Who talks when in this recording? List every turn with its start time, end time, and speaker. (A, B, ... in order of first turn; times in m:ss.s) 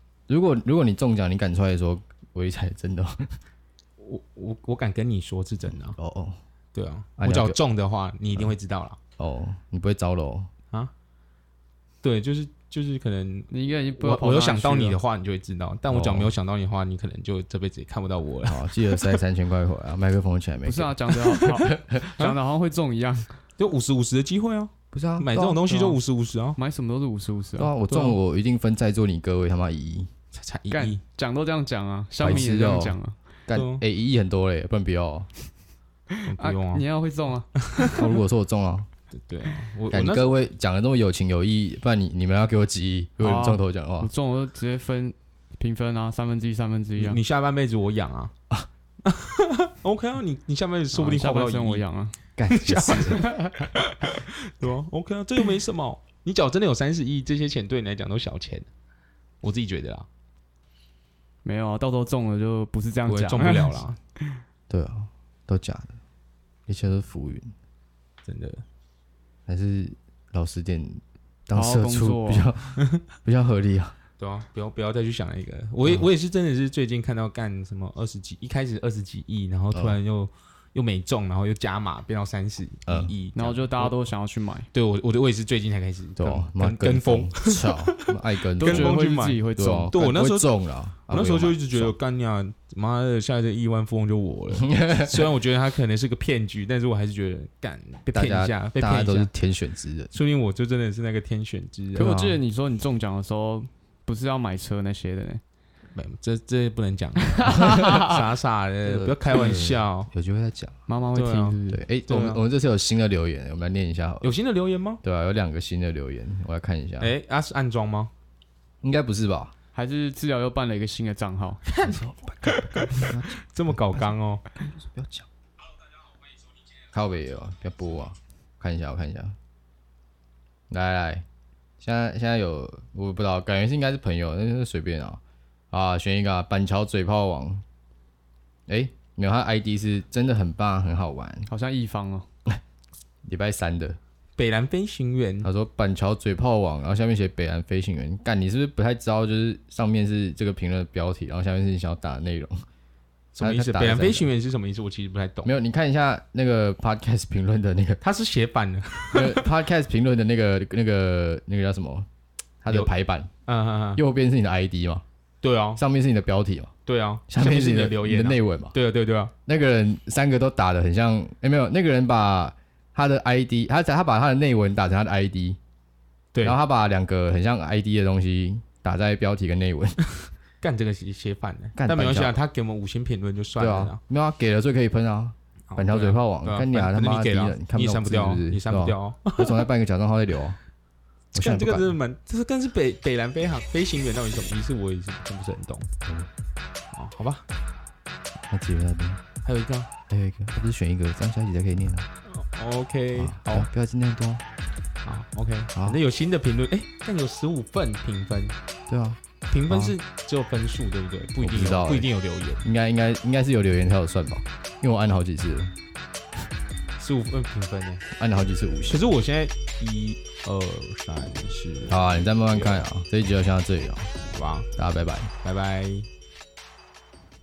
0:00.3-0:03.3 A
0:04.0-0:06.0 B
0:05.7-0:06.4 A
0:06.7-0:09.0 B
0:07.2-0:07.6 A
0:09.2-0:10.5 A
0:12.0-0:19.1 B
0:13.5-0:15.0 C
0:15.9-0:16.3 A
0:18.5-0:22.0 A
0:20.7-0:23.3 C
0:23.6-0:26.6 B
0:24.9-0:26.0 A
0:26.6-0:27.8 C
0:27.6-0:30.1 A
0:27.9-0:28.2 B
0:30.3-0:31.0 B
0:30.7-0:33.2 C
0:32.2-0:35.3 A
0:33.5-0:33.8 B
0:36.2-0:36.9 B
0:36.4-0:38.0 C
0:37.6-0:38.0 B
0:37.9-0:38.9 A
0:39.2-0:40.3 B
0:39.9-0:44.1 A
0:43.2-0:47.2 C
0:47.0-0:48.3 B
0:49.0-0:51.8 B
0:50.9-0:52.2 C
0:52.4-0:53.2 A
0:52.5-0:58.7 B
0:53.1-0:53.6 C
0:59.4-1:00.1 B
1:01.4-1:03.8 C
1:03.1-1:04.0 B
1:04.7-1:06.0 A
1:06.7-1:07.5 A
1:08.2-1:08.6 B
1:09.5-1:14.0 A
1:11.5-1:12.5 C
1:14.2-1:23.9 B
1:19.7-1:20.0 A
1:22.9-1:23.1 A
1:23.4-1:24.7 C
1:24.7-1:30.5 B
1:26.2-1:29.0 A
1:28.6-1:30.0 C
1:29.6-1:32.0 A
1:31.1-1:39.3 B
1:34.6-1:35.2 A
1:38.1-1:40.1 A
1:40.1-1:42.2 B
1:42.0-1:45.4 C
1:42.0-1:42.4 A
1:46.0-1:50.1 B
1:47.3-1:48.2 C
1:48.8-1:50.8 A
1:50.9-1:51.8 C
1:51.1-1:52.4 B
1:51.7-1:54.3 A
1:54.2-1:55.0 B
1:55.0-1:57.1 A
1:57.0-1:58.1 B
1:58.8-1:59.5 A
1:59.8-2:01.6 C
2:01.7-2:02.0 B
2:01.8-2:05.3 A
2:02.5-2:04.4 B
2:06.9-2:09.4 A
2:10.7-2:11.2 A
2:11.8-2:17.6 A
2:18.7-2:21.5 A
2:21.5-2:22.3 C
2:23.3-2:24.0 A
2:24.4-2:25.5 B
2:25.4-2:32.6 A
2:33.4-2:35.5 B
2:33.4-2:34.3 A
2:35.4-2:38.0 A
2:38.0-2:39.5 B
2:39.1-2:42.1 A
2:42.6-2:43.3 A
2:43.5-2:44.0 B
2:44.0-2:45.0 A
2:45.4-2:45.8 B
2:45.8-2:46.7 A
2:46.9-2:49.3 B
2:47.3-2:48.8 A
2:49.5-2:55.6 A
2:56.3-2:56.6 B
2:56.4-3:00.0 A
3:00.6-3:04.0 B
3:01.8-3:02.4 A
3:03.6-3:10.6 A
3:05.7-3:09.6 B
3:11.3-3:15.9 B
3:11.4-3:12.0 A
3:16.9-3:17.4 B
3:18.5-3:19.2 A
3:19.4-3:19.9 B
3:20.1-3:22.1 A
3:22.3-3:23.7 B
3:23.1-3:24.4 A
3:25.0-3:28.6 B
3:25.8-3:26.0 A
3:28.9-3:30.0 A
3:29.5-3:32.6 B
3:31.4-3:32.1 A
3:32.6-3:35.7 A
3:37.0-3:38.0 B
3:38.1-3:39.1 A
3:38.9-3:42.8 B
3:41.9-3:44.1 A
3:44.3-3:44.7 B
3:44.8-3:45.3 A
3:45.4-3:46.1 B